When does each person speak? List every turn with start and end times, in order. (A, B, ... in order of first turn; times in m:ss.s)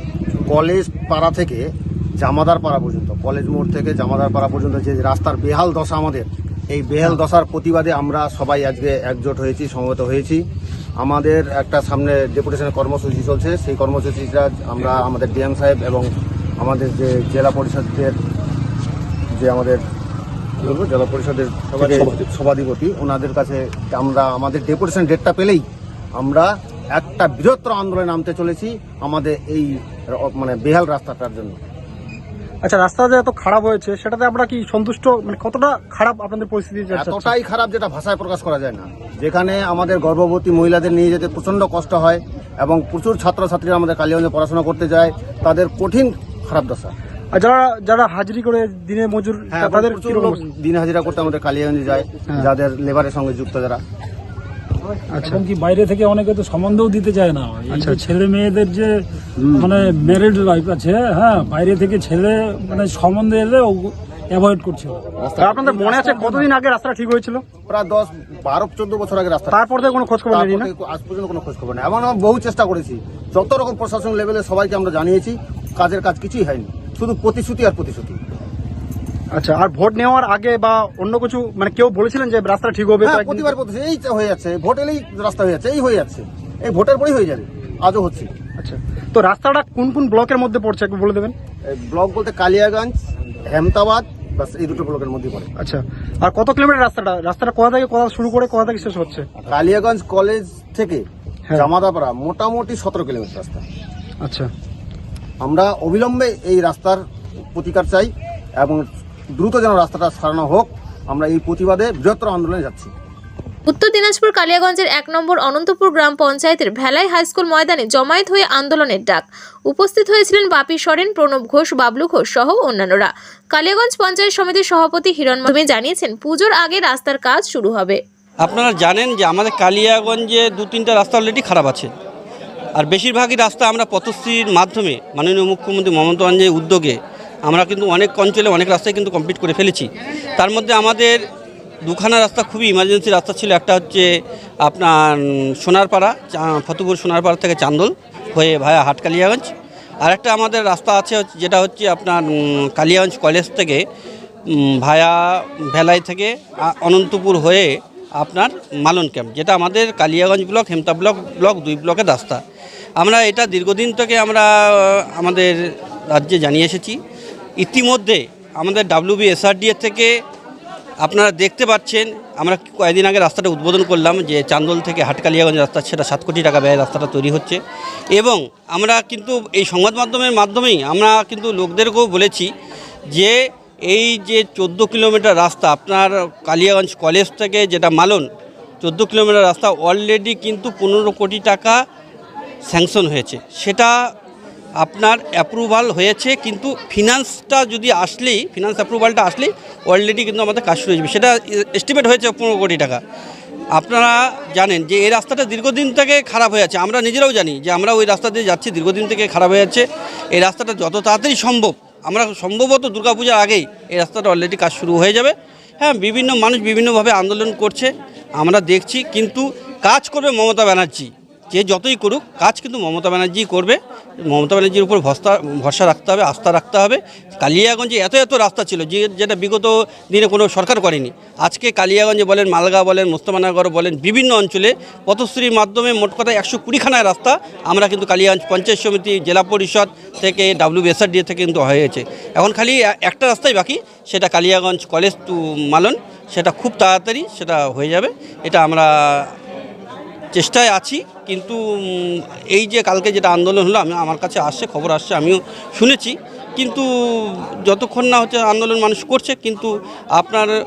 0:00.5-0:01.7 A
0:02.2-0:10.4 A
0:11.0-0:18.2 A
0:19.4-0:19.8 A
0:20.6-0:25.6 A
0:26.2-0:31.6 A
0:32.6-0:37.3 B
0:36.9-0:46.9 A
0:47.3-0:50.4 B
0:49.5-0:53.8 A
0:55.1-0:55.4 B
0:55.2-1:05.0 C
0:57.7-0:58.1 B
1:05.4-1:07.4 B
1:05.9-1:06.4 C
1:07.7-1:09.6 A
1:09.5-1:10.7 B
1:10.3-1:18.2 A
1:19.3-1:23.5 B
1:23.0-1:28.3 A
1:28.6-1:31.4 B
1:31.7-1:33.0 A
1:33.5-1:35.5 A
1:35.6-1:39.3 B
1:39.4-1:43.6 A
1:44.2-1:44.5 B
1:45.4-1:47.0 A
1:47.6-1:48.8 A
1:49.4-1:52.9 A
1:53.7-2:08.0 D
2:08.4-2:11.9 E
2:12.8-2:21.2 E
2:21.8-2:24.1 E
2:24.6-2:29.5 E
2:30.0-2:33.8 E
2:34.5-2:42.4 E
2:43.0-2:45.5 E
2:46.1-2:47.0 E
2:47.6-2:50.1 E
2:51.0-2:57.6 E
2:58.2-3:02.5 E
3:03.9-3:08.3 E
3:08.8-3:11.8 E
3:12.7-3:13.9 E
3:14.8-3:23.0 E
3:23.8-4:09.3 E
4:10.3-4:20.5 E